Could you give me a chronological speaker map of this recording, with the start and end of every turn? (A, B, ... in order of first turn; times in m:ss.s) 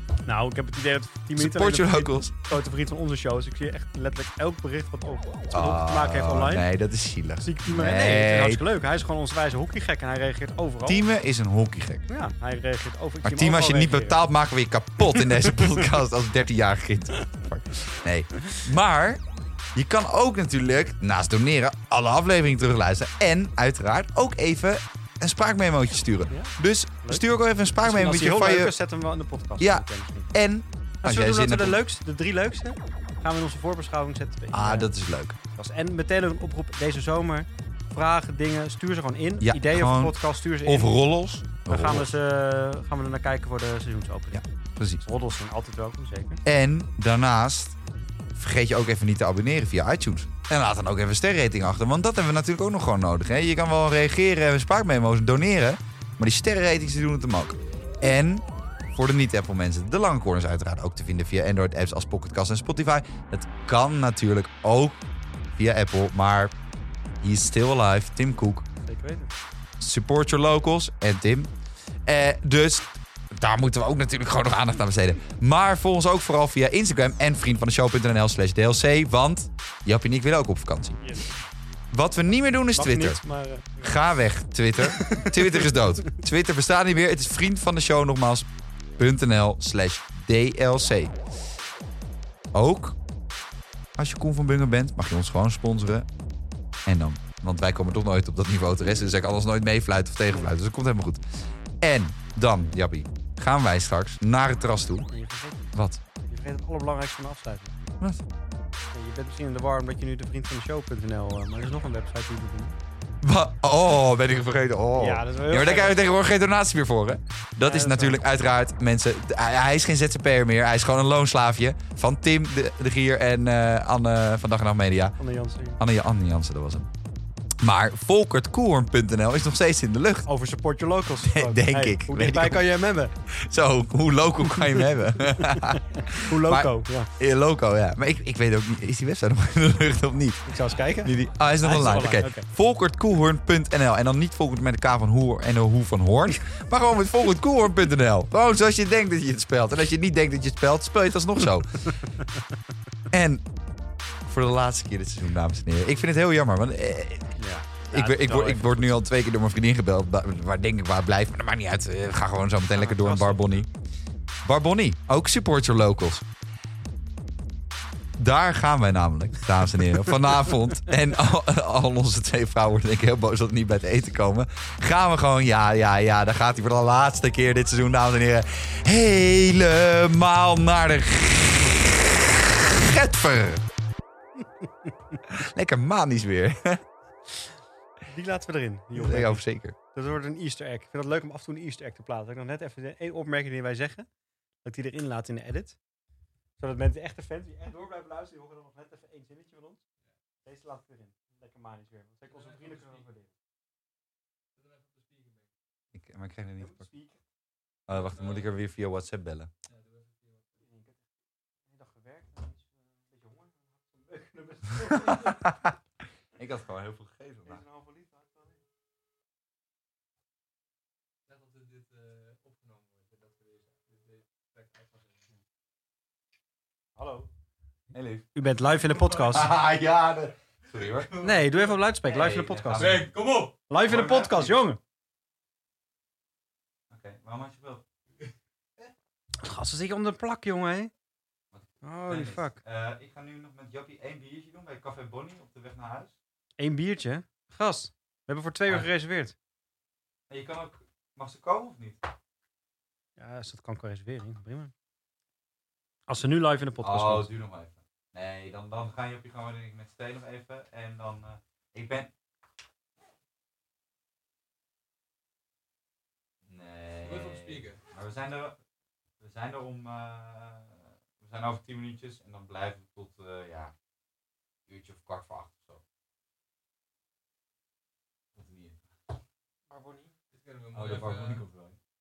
0:00.3-0:06.6 A
0:01.4-0:02.3 B
0:05.5-0:08.6 B
0:07.4-0:11.1 A
0:10.8-0:12.0 B
0:12.1-0:14.2 A
0:13.2-0:19.2 B
0:15.0-0:15.9 A
0:19.7-0:28.7 B
0:26.3-0:30.3 A
0:29.6-0:31.8 B
0:31.0-0:34.9 A
0:34.5-0:35.4 B
0:35.5-0:40.9 A
0:39.4-0:42.1 B
0:41.6-0:44.4 A
0:44.3-0:45.0 B
0:45.0-0:46.4 A
0:46.4-0:47.7 B
0:48.3-1:05.0 B
1:05.5-1:06.5 B
1:07.2-1:08.6 B
1:08.8-1:09.3 A
1:09.8-1:11.5 B
1:12.0-1:21.0 B
1:21.0-1:21.3 A
1:21.9-1:23.2 B
1:22.7-1:23.9 A
1:23.8-1:31.2 B
1:24.8-1:26.2 A
1:32.5-1:33.0 B
1:34.0-1:36.1 B
1:36.8-1:41.2 B
1:41.8-1:45.1 B
1:45.1-1:47.8 A
1:45.7-1:46.0 B
1:48.9-1:52.7 A
1:53.2-2:05.2 B
1:55.0-1:56.0 A
1:57.6-1:58.2 A
2:05.2-2:05.8 A
2:05.8-2:06.9 B
2:07.6-2:10.3 B
2:10.2-2:13.1 A
2:11.2-2:12.6 B
2:13.3-2:20.5 B
2:14.5-2:17.1 A
2:20.5-2:22.5 A
2:20.9-2:21.8 C
2:21.0-2:32.0 B
2:33.1-2:33.4 B
2:34.2-2:43.7 B
2:37.4-2:39.0 A
2:42.7-2:43.6 A
2:44.4-2:46.2 B
2:48.2-3:03.6 B
3:05.3-3:06.8 B
3:08.1-3:14.1 A
3:08.9-3:09.8 B
3:14.6-3:15.8 A
3:16.6-3:19.8 A
3:20.4-3:23.3 A
3:22.3-3:23.1 C
3:24.6-3:25.5 C
3:25.9-3:26.8 B
3:26.6-3:27.2 A
3:27.9-3:29.5 B
3:27.9-3:28.5 C
3:29.6-3:30.5 C
3:30.6-3:31.0 A
3:31.7-3:35.4 A
3:34.8-3:35.8 B
3:36.4-3:37.6 B
3:37.4-3:38.6 A
3:41.3-3:45.3 C
3:47.0-3:47.3 A
3:47.9-3:48.3 B
3:48.3-3:49.5 A
3:49.3-3:51.1 B
3:51.0-3:51.8 C
3:51.2-3:53.0 A
3:52.0-3:53.1 B
3:52.7-3:53.6 C
3:53.7-3:54.8 A
3:53.8-3:54.6 B
3:56.9-3:57.8 B
3:59.4-4:00.9 A
4:01.5-4:06.1 B
4:01.8-4:02.6 A
4:06.6-4:09.3 A
4:10.3-4:12.0 B
4:13.2-4:14.7 A
4:16.1-4:17.3 A
4:16.8-4:22.1 B
4:26.4-4:28.6 B
4:27.0-4:27.8 C
4:29.2-4:33.7 B
4:34.7-4:35.8 B
4:38.3-4:38.8 B
4:39.7-4:40.1 A
4:40.3-4:41.4 C
4:40.7-4:41.8 B